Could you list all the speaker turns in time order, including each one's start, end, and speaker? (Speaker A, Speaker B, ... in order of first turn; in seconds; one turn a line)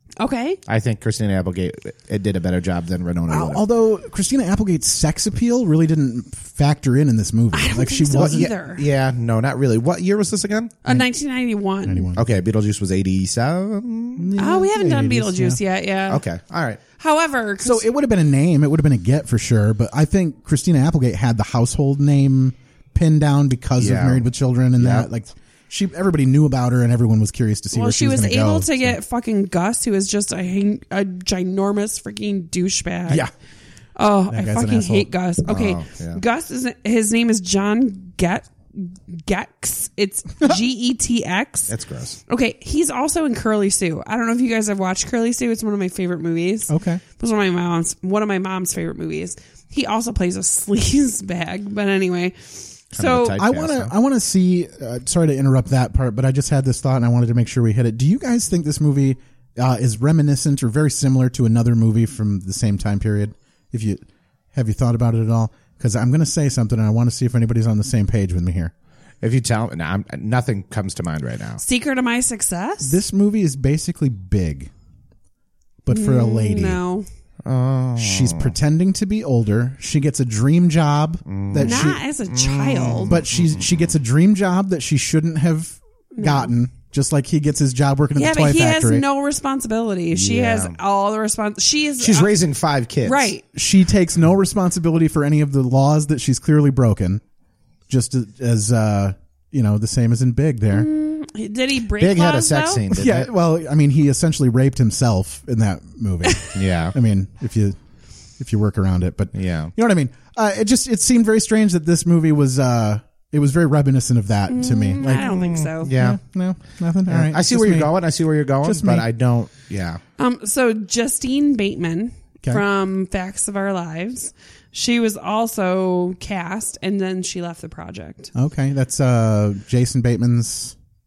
Speaker A: 0.2-0.6
Speaker B: 0.7-3.6
Speaker C: 3.3-8.5
Speaker A: 7.5-8.8
Speaker B: 8.2-10.8
Speaker A: 10.8-12.1
Speaker C: 11.8-12.2
Speaker B: 12.2-14.3
Speaker C: 14.2-15.6
Speaker A: 14.4-16.2
Speaker B: 16.1-16.8
Speaker A: 17.0-17.9
Speaker C: 17.6-29.0
Speaker B: 23.8-24.2
Speaker B: 24.8-25.1
Speaker A: 27.7-33.2
Speaker A: 34.0-41.7
Speaker C: 34.3-35.1
Speaker B: 35.5-36.2
Speaker B: 41.7-42.2
Speaker A: 42.3-53.4
Speaker C: 46.7-47.0
Speaker B: 52.9-53.9
Speaker C: 53.4-68.7
Speaker B: 69.2-71.6
Speaker A: 71.6-73.0
Speaker C: 72.8-74.7
Speaker C: 75.8-76.8
Speaker A: 75.9-77.0
Speaker B: 77.4-78.5
Speaker C: 78.0-82.0
Speaker B: 81.3-83.8
Speaker A: 81.6-83.2
Speaker C: 83.0-89.0
Speaker A: 86.2-86.5
Speaker A: 88.2-92.4
Speaker B: 90.1-90.8
Speaker B: 92.0-93.3
Speaker A: 93.0-93.4
Speaker C: 93.5-97.2
Speaker C: 97.9-100.9
Speaker A: 100.7-102.8
Speaker B: 102.0-103.3
Speaker C: 102.9-107.8
Speaker B: 106.5-106.9
Speaker C: 108.4-115.3
Speaker B: 109.3-109.7
Speaker A: 114.5-115.9
Speaker B: 115.0-116.2
Speaker C: 115.9-118.0
Speaker B: 117.1-120.0
Speaker C: 118.6-119.0
Speaker A: 120.2-128.3
Speaker C: 128.3-130.7